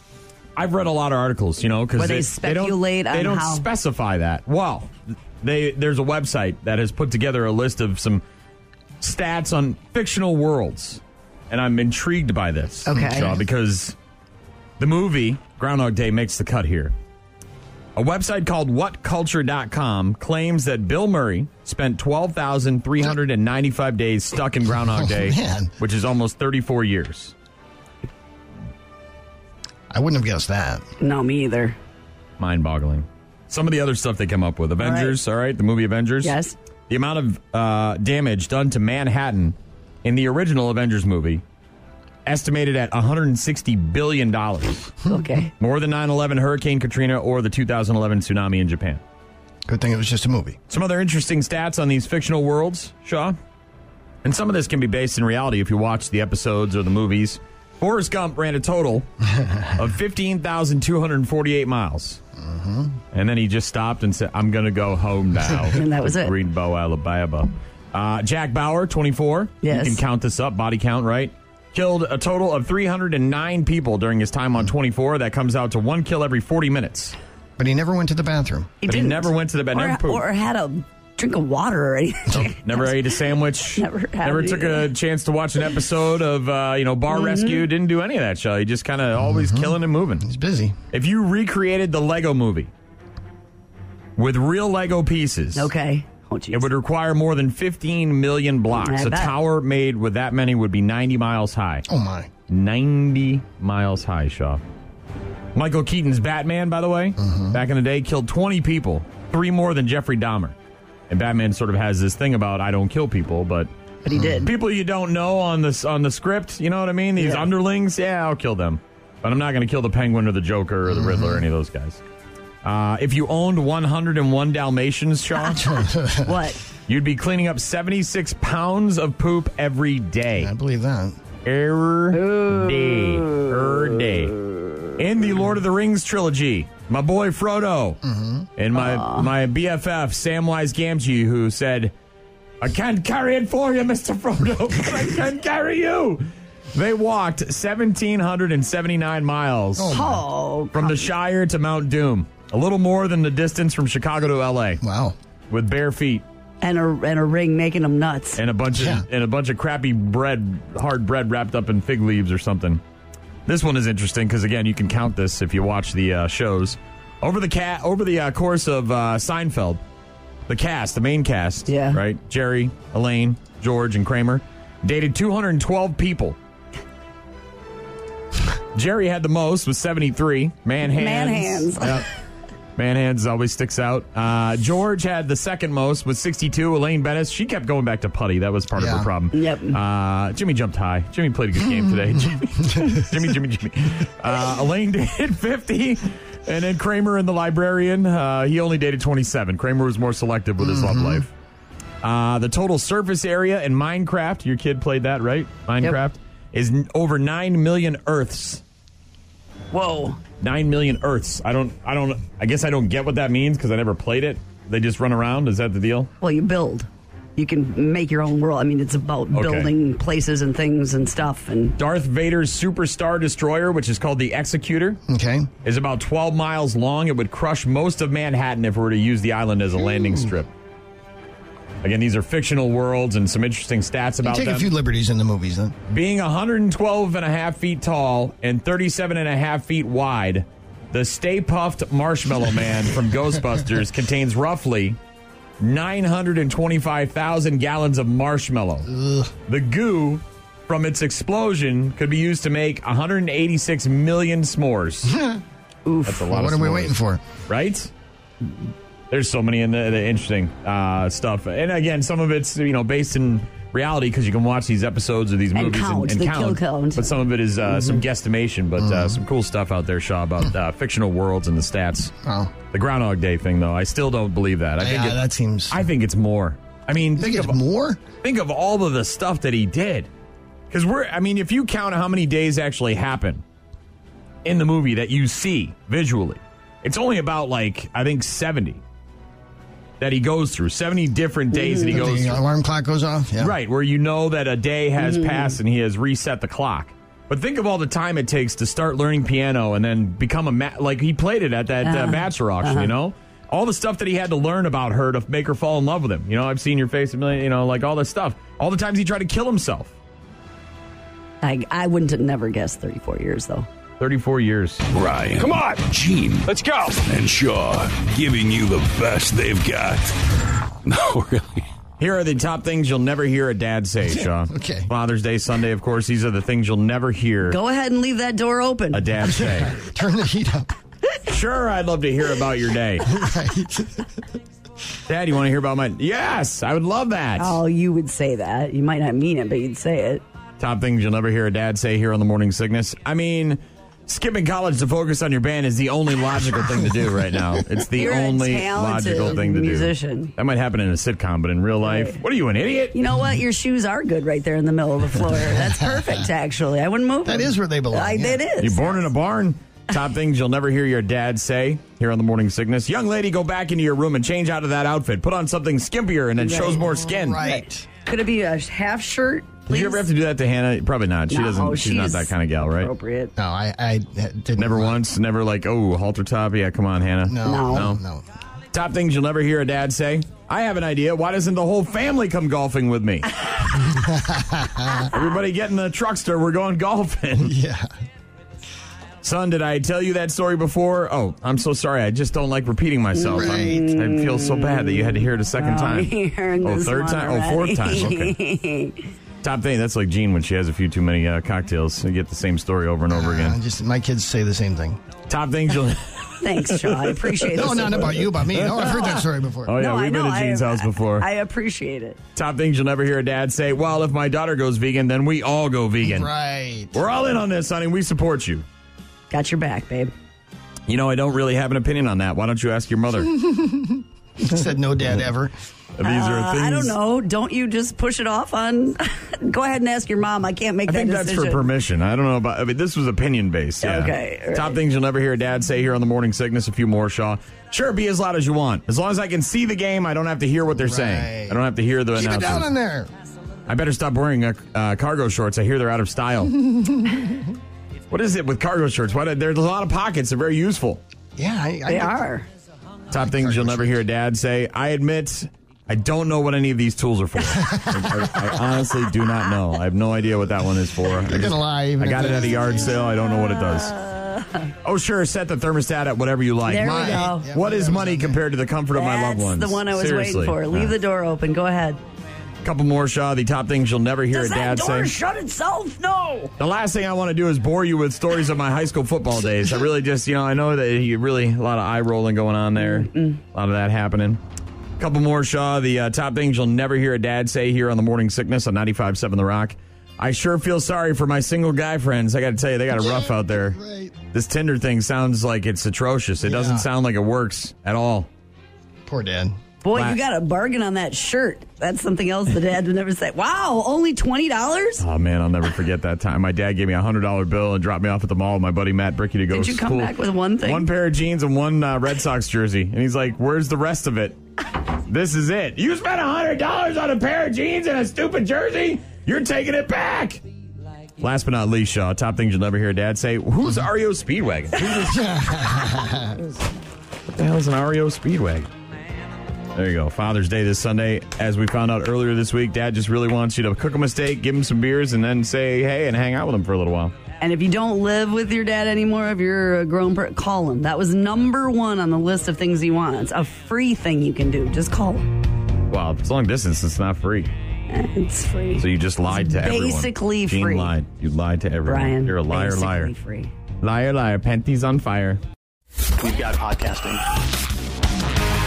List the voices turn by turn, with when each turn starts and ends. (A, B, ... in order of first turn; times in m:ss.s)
0:00.6-0:08.2 A
0:02.0-0:03.6 B
0:09.0-0:13.9 A
0:12.8-0:13.3 B
0:14.8-0:16.9 A
0:18.0-0:27.3 A
0:24.8-0:25.7 C
0:29.9-0:30.8 C
0:31.0-0:31.8 B
0:32.4-0:36.4 A
0:34.8-0:35.1 B
0:36.2-0:36.5 B
0:36.9-0:41.4 A
0:42.2-0:45.1 A
0:45.1-0:45.5 B
0:45.6-0:49.0 A
0:49.6-0:50.6 C
0:50.7-0:53.4 A
0:54.2-0:59.0 A
0:59.7-1:02.2 A
1:02.4-1:02.9 C
1:03.1-1:17.2 A
1:05.7-1:06.3 B
1:09.6-1:10.0 B
1:17.6-1:18.7 C
1:18.8-1:22.9 B
1:18.8-1:20.2 A
1:22.3-1:30.2 A
1:23.8-1:24.9 B
1:27.1-1:27.6 B
1:29.2-1:30.8 C
1:30.9-1:32.7 A
1:34.2-1:35.7 A
1:35.6-1:36.6 B
1:36.5-1:41.8 A
1:38.8-1:39.3 B
1:41.9-1:42.3 C
1:42.5-1:44.6 A
1:45.5-1:50.5 A
1:47.2-1:47.6 C
1:51.1-1:53.7 A
1:54.0-1:54.5 B
1:54.1-1:54.5 C
1:54.4-2:02.0 A
1:57.2-1:57.5 B
2:00.9-2:01.4 C
2:02.6-2:05.7 A
2:05.4-2:06.6 B
2:05.6-2:06.3 C
2:06.9-2:10.5 A
2:10.4-2:11.2 C
2:11.4-2:14.3 A
2:12.1-2:13.5 B
2:15.0-2:18.0 A
2:18.0-2:18.5 C
2:18.6-2:21.9 A
2:18.7-2:19.3 B
2:22.6-2:30.0 A
2:29.8-2:30.2 C
2:29.9-2:31.0 B
2:30.7-2:34.8 A
2:34.8-2:35.2 C
2:35.5-2:36.2 A
2:36.6-2:38.4 B
2:38.4-2:42.8 A
2:38.7-2:39.0 C
2:43.5-2:49.8 A
2:50.5-2:56.4 A
2:51.7-2:52.0 B
2:58.7-3:02.1 A
3:00.8-3:02.0 B
3:02.8-3:21.3 A
3:08.7-3:09.1 C
3:09.3-3:09.8 B
3:12.7-3:13.0 C
3:20.6-3:21.2 C
3:22.0-3:28.6 A
3:29.7-3:30.2 B
3:30.4-3:36.1 A
3:36.2-3:41.8 B
3:39.3-3:39.7 A
3:41.8-3:45.0 A
3:45.1-3:45.5 C
3:45.6-3:50.5 A
3:51.8-3:54.7 A
3:54.2-3:55.7 C
3:55.9-4:05.0 A
4:05.6-4:08.9 A
4:08.9-4:09.3 C
4:09.5-4:15.2 A
4:15.1-4:15.4 C
4:15.8-4:16.3 B
4:16.0-4:17.9 A
4:16.3-4:17.2 C
4:19.1-4:32.1 A
4:25.5-4:27.1 B
4:28.8-4:29.2 C
4:32.2-4:32.5 C
4:32.7-4:35.2 A
4:34.8-4:35.8 C
4:35.7-4:40.1 A
4:37.0-4:38.0 C
4:40.7-4:43.4 A
4:44.4-4:48.8 A
4:50.0-4:52.4 A
4:51.5-4:52.0 B
4:51.8-4:53.5 C
4:53.4-5:09.9 A
4:55.0-4:55.5 B
5:01.8-5:02.9 B
5:11.4-5:13.6 B
5:14.0-5:14.8 A
5:14.9-5:20.2 D
5:15.4-5:15.8 E
5:16.5-5:16.9 E
5:20.8-5:21.7 D
5:22.0-5:27.6 A
5:24.1-5:24.9 C
5:27.4-5:29.0 B
5:28.9-5:29.8 A
5:29.2-5:30.7 C
5:31.2-5:33.2 A
5:33.1-5:34.1 C
5:35.1-5:37.6 A
5:37.4-5:40.2 B
5:40.6-5:53.0 A
5:48.0-5:50.3 B
5:51.8-5:52.2 B
5:52.9-5:58.9 B
5:57.2-5:58.4 C
5:58.6-6:07.4 A
6:06.4-6:10.0 B
6:06.9-6:07.9 C
6:09.7-6:12.9 A
6:11.3-6:13.3 B
6:13.4-6:15.0 C
6:14.6-6:18.0 A
6:17.3-6:18.2 C
6:17.4-6:17.9 B
6:18.7-6:23.3 A
6:24.0-6:25.1 C
6:25.1-6:27.5 A
6:27.4-6:27.9 C
6:29.2-6:38.3 A
6:33.1-6:39.0 B
6:33.3-6:33.9 C
6:39.4-6:43.6 A
6:43.1-6:45.0 C
6:45.3-6:51.3 A
6:46.4-6:48.2 B
6:47.5-6:49.8 C
6:49.8-6:52.2 B
6:52.3-6:56.3 A
6:56.0-6:57.0 C
6:56.9-6:58.6 A
6:59.3-7:00.1 B
7:00.9-7:03.3 A
7:03.4-7:05.5 C
7:06.0-7:06.9 A
7:06.0-7:11.6 B
7:10.9-7:22.7 A
7:13.8-7:14.8 B
7:20.7-7:21.6 C
7:22.1-7:23.1 C
7:23.7-7:26.6 A
7:26.7-7:27.4 C
7:28.1-7:31.0 A
7:31.4-7:32.2 C
7:31.8-7:32.4 B
7:33.1-7:44.0 A
7:33.1-7:34.0 C
7:37.5-7:38.3 C
7:41.2-7:43.0 C
7:43.2-7:44.6 B
7:44.8-7:50.9 A
7:46.7-7:47.5 B
7:46.8-7:48.4 C
7:48.9-7:52.0 B
7:52.6-7:55.1 A
7:54.3-7:56.5 B
7:56.6-8:04.4 A
8:02.8-8:03.4 B
8:05.0-8:13.8 A
8:13.0-8:14.1 C
8:14.3-8:18.3 A
8:16.4-8:16.9 C
8:19.0-8:19.6 C
8:19.8-8:25.0 B
8:19.9-8:20.2 A
8:25.0-8:34.4 A
8:29.5-8:30.9 B
8:35.0-8:40.4 A
8:41.2-8:46.1 A
8:44.8-8:46.4 C
8:47.3-8:48.7 A
8:49.7-8:57.1 A
8:57.4-9:05.2 B
9:05.9-9:07.5 A
9:07.9-9:10.9 B
9:08.8-9:13.1 A
9:11.8-9:13.5 B
9:13.8-9:15.4 A
9:16.2-9:17.2 E